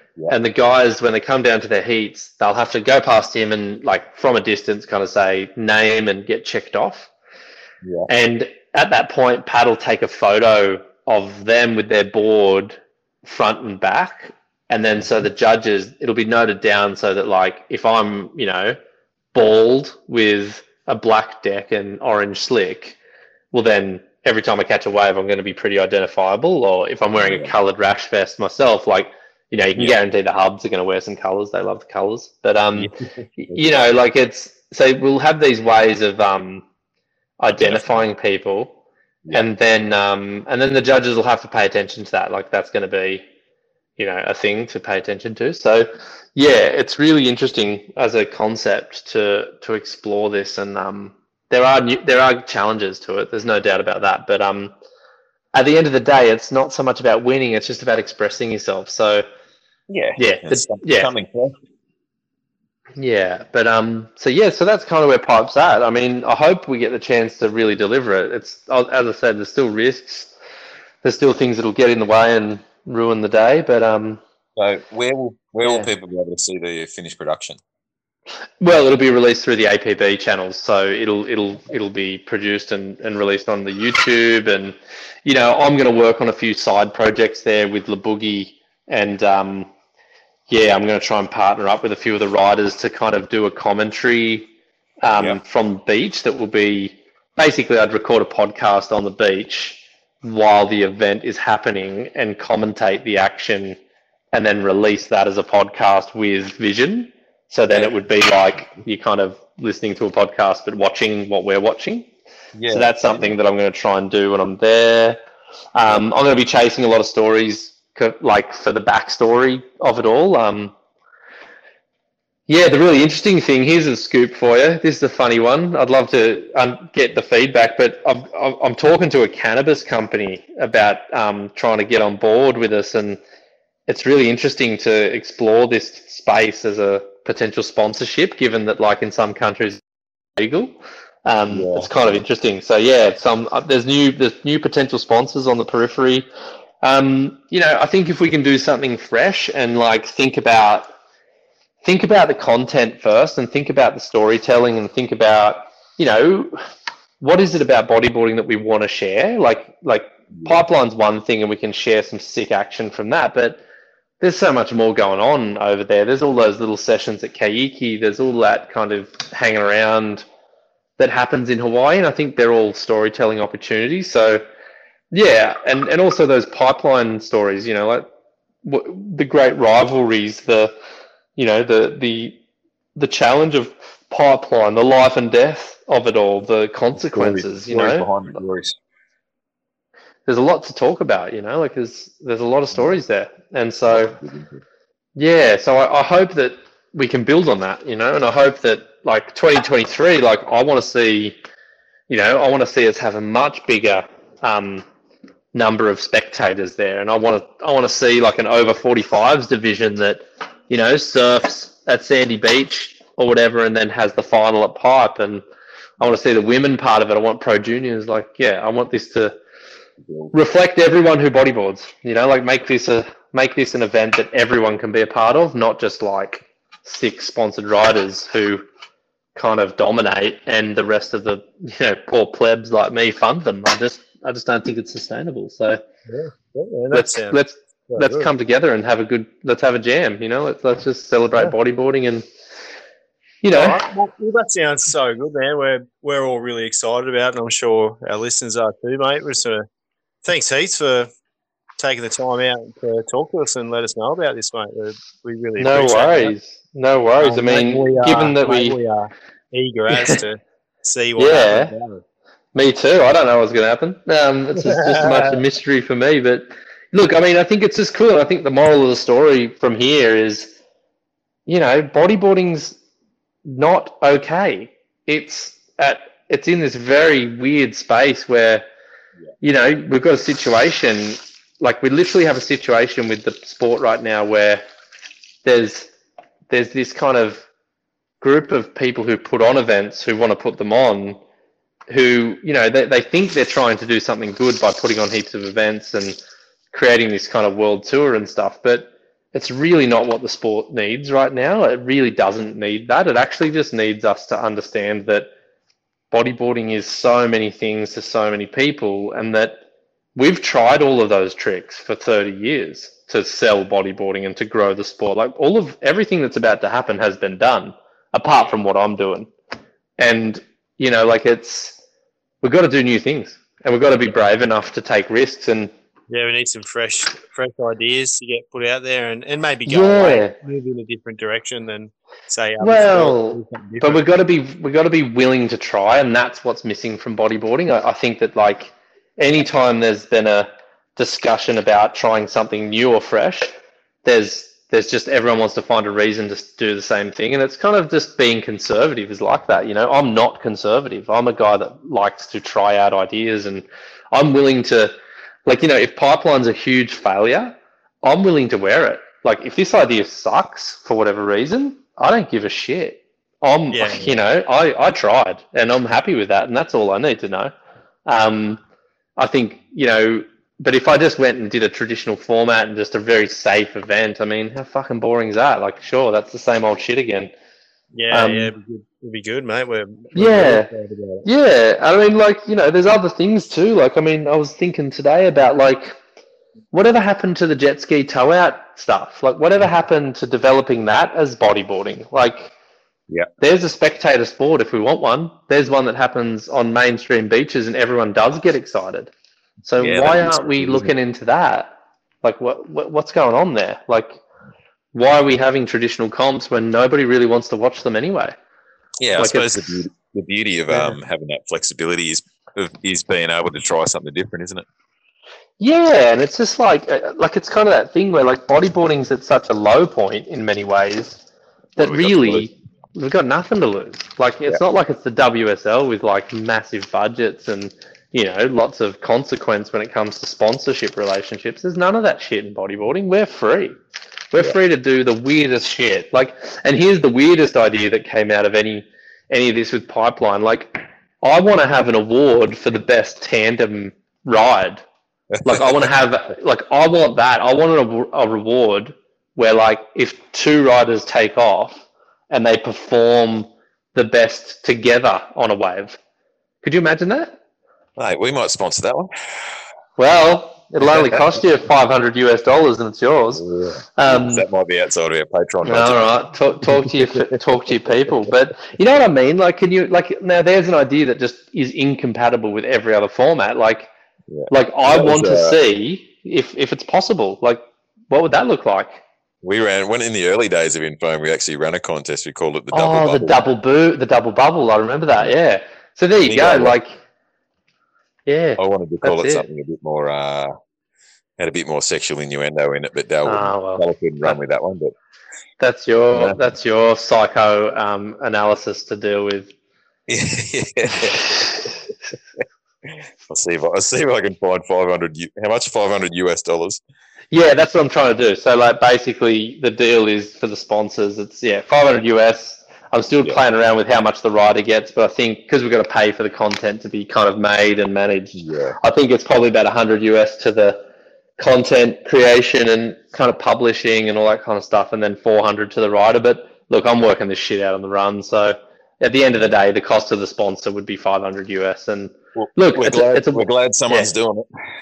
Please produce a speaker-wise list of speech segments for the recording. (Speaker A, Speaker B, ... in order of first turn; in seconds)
Speaker A: 0.3-7.1, 8.1-18.8, 19.3-23.0, 23.5-36.6, 37.4-38.7, 39.3-43.2, 44.0-54.7, 55.5-59.2, 60.2-61.1, 63.0-70.3, 71.0-74.2, 75.6-75.9, 78.6-89.7, 90.5-94.5, 95.0-103.8, 104.3-112.1, 112.7-115.2, 115.7-120.7, 122.5-133.2, 133.9-139.8, 140.4-146.3, 146.8-150.9, 151.8-156.5, 157.2-163.6, 164.2-170.2, 171.0-174.4, 175.1-178.1, 178.6-180.7, 181.4-182.4, 182.9-188.1, 190.2-194.2, 195.2-201.4, 202.1-204.8, 205.5-215.4, 216.0-219.4, 220.3-228.6, 229.3-235.8, 236.9-242.2, 243.4-243.8, 255.6-258.8, 259.9-260.1, 261.2-261.7, 262.5-270.5, 271.5-272.8, 273.4-278.6, 279.4-284.6, 285.4-285.9, 286.5-287.4, 288.2-291.2, 291.9-296.2, 296.7-305.3, 306.1-309.6, 310.1-319.3, 320.0-321.8, 322.4-325.7, 329.6-330.4, 332.6-343.5, 344.0-367.5, 368.1-368.6, 369.2-377.3, 378.1-378.5, 380.1-380.7, 381.2-386.0, 386.7-392.5, 393.4-399.1, 399.6-404.2, 404.9-408.3, 409.2-409.8, 410.7-411.0, 415.6-421.2, 421.8-433.8, 434.3-444.8, 445.4-456.0, 456.6-457.4, 460.0-463.4, 463.9-464.4, 465.6-473.9, 474.5-479.0, 482.7-486.9, 488.3-489.4, 493.2-494.4, 495.6-499.5, 507.3-520.9, 521.4-534.1
Speaker B: 7.8-8.1, 27.2-27.5, 32.8-33.9, 37.5-38.0, 59.9-61.5, 74.5-77.6, 112.5-113.3, 141.5-142.2, 186.9-188.8, 193.9-194.6, 399.8-400.9, 409.0-414.6, 421.8-422.5, 445.4-445.8, 458.0-459.5, 460.8-461.3, 463.3-466.2, 466.7-467.4, 474.3-475.6, 479.4-483.4, 486.2-486.8, 488.6-490.5, 491.4-494.9, 496.1-496.4, 500.1-501.7, 503.2-506.8, 518.3-518.8, 532.4-534.5
Speaker C: 236.1-238.3, 243.5-249.7, 250.2-251.1, 251.8-256.3, 257.2-262.0, 264.6-265.4, 326.1-334.0, 363.7-364.1, 377.9-381.3